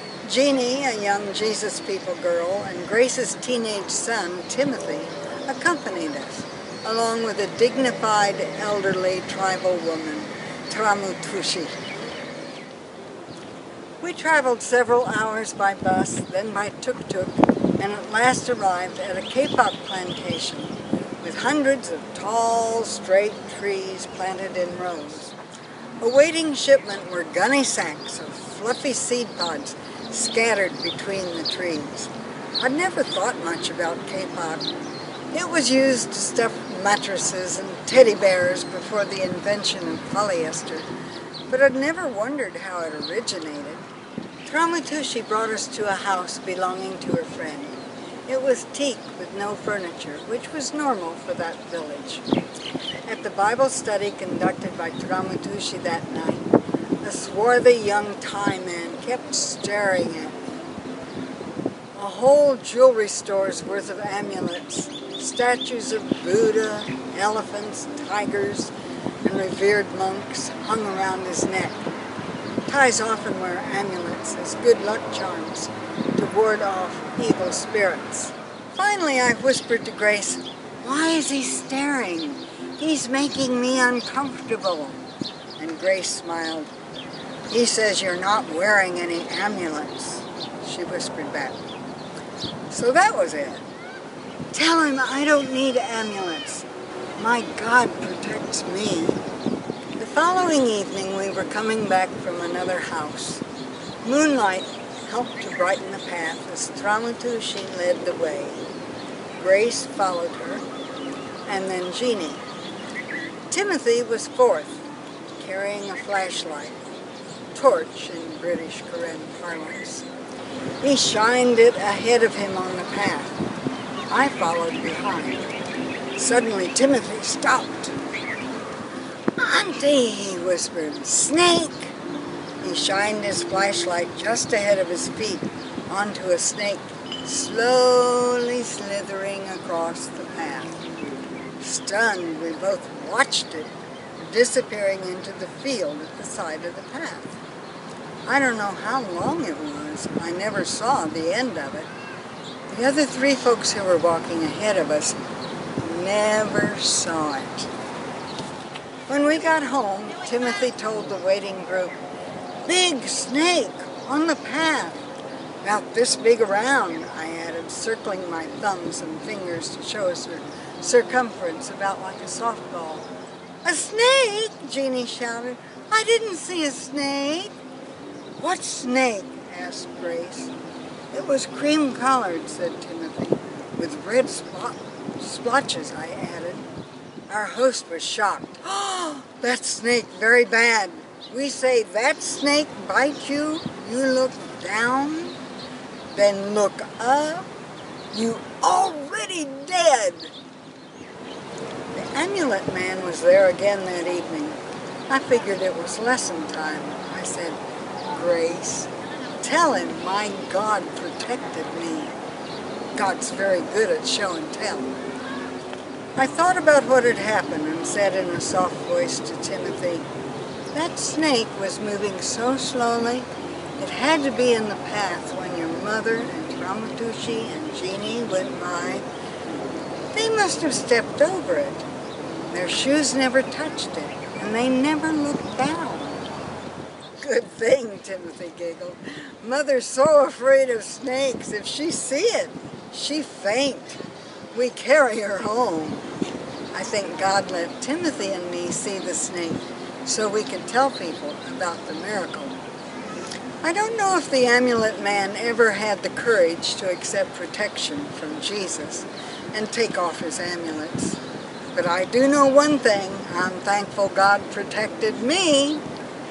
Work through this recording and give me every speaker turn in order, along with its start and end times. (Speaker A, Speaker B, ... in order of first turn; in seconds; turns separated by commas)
Speaker A: 0.2-11.8, Speaker A: 14.0-25.4, Speaker A: 26.0-34.7, Speaker A: 35.3-40.9, Speaker A: 41.5-43.9, Speaker A: 44.5-47.8, Speaker A: 48.3-52.2, Speaker A: 53.1-56.5, Speaker A: 57.0-60.4, Speaker A: 61.9-71.8, Speaker A: 72.7-85.0, Speaker A: 85.6-86.7, Speaker A: 87.5-91.6, Speaker A: 92.7-93.7, Speaker A: 94.5-99.2, Speaker A: 100.0-103.4, Speaker A: 104.0-108.6, Speaker A: 109.4-110.7, Speaker A: 111.5-112.4, Speaker A: 113.5-114.8, Speaker A: 115.4-116.8, Speaker A: 117.5-120.1, Speaker A: 120.8-123.3, Speaker A: 124.1-125.5, Speaker A: 126.2-128.0, Speaker A: 129.4-132.0, Speaker A: 132.6-140.8, Speaker A: 141.6-147.4, Speaker A: 148.3-151.9, Speaker A: 152.7-155.2, Speaker A: 155.8-157.7, Speaker A: 159.1-162.0, Speaker A: 162.6-165.0, Speaker A: 165.6-173.1, Speaker A: 173.6-177.6, Speaker A: 178.4-180.5, Speaker A: 181.1-186.7, Speaker A: 187.3-195.4, Speaker A: 196.1-197.5, Speaker A: 198.1-200.3, Speaker A: 201.9-207.6, Speaker A: 208.1-212.1, Speaker A: 212.9-214.9, Speaker A: 216.2-220.1, Speaker A: 220.7-229.1, Speaker A: 230.1-231.9, Speaker A: 232.5-236.3, Speaker A: 237.2-244.0, Speaker A: 244.5-246.0, Speaker A: 246.7-252.6, Speaker A: 253.6-261.2, Speaker A: 261.7-265.8